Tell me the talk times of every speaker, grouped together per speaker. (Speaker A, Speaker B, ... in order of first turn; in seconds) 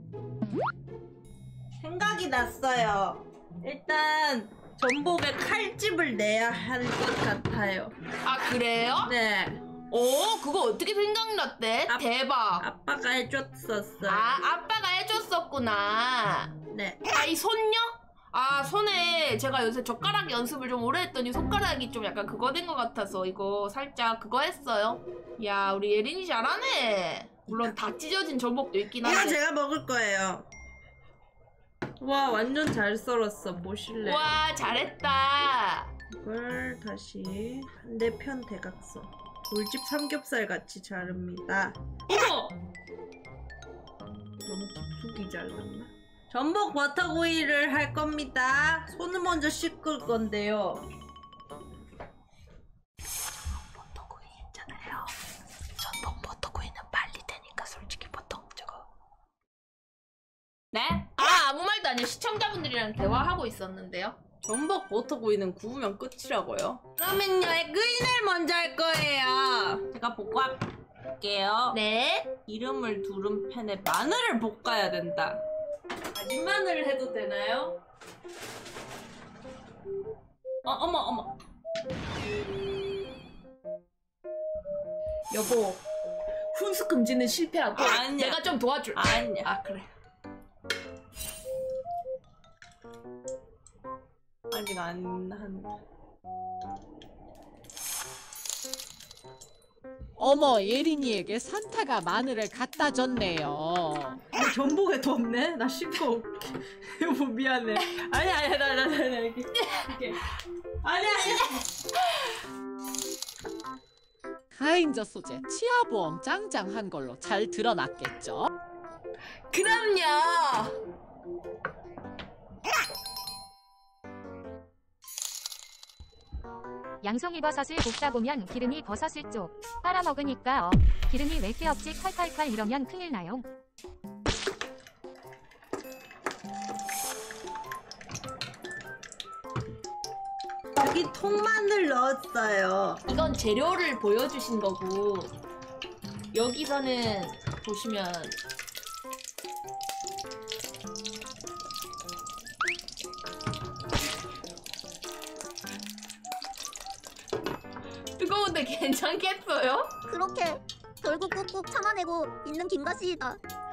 Speaker A: 1.8-7.9, 9.0-9.6, 12.6-14.4, 16.7-17.0, 27.5-27.8, 29.0-30.5, 32.0-34.4, 36.1-41.8, 44.5-50.8, 54.7-55.0, 56.2-58.6, 60.7-61.1, 64.4-70.6, 71.2-71.8, 72.5-75.4, 76.1-77.8, 80.6-81.3, 87.7-89.9, 94.5-95.7, 104.3-110.2, 110.8-111.7, 140.8-143.0
Speaker B: 8.2-9.1, 9.9-12.6, 14.0-16.5, 17.1-29.4, 34.0-35.9, 42.1-42.5, 55.8-56.9, 57.6-58.7, 61.2-64.2, 71.7-72.3, 85.3-85.8, 86.5-89.6, 109.7-109.9, 119.5-120.8, 143.1-145.3, 146.3-148.3, 158.2-159.9
Speaker C: 100.2-104.2, 114.5-118.5
Speaker D: 127.0-133.4
Speaker E: 160.1-163.4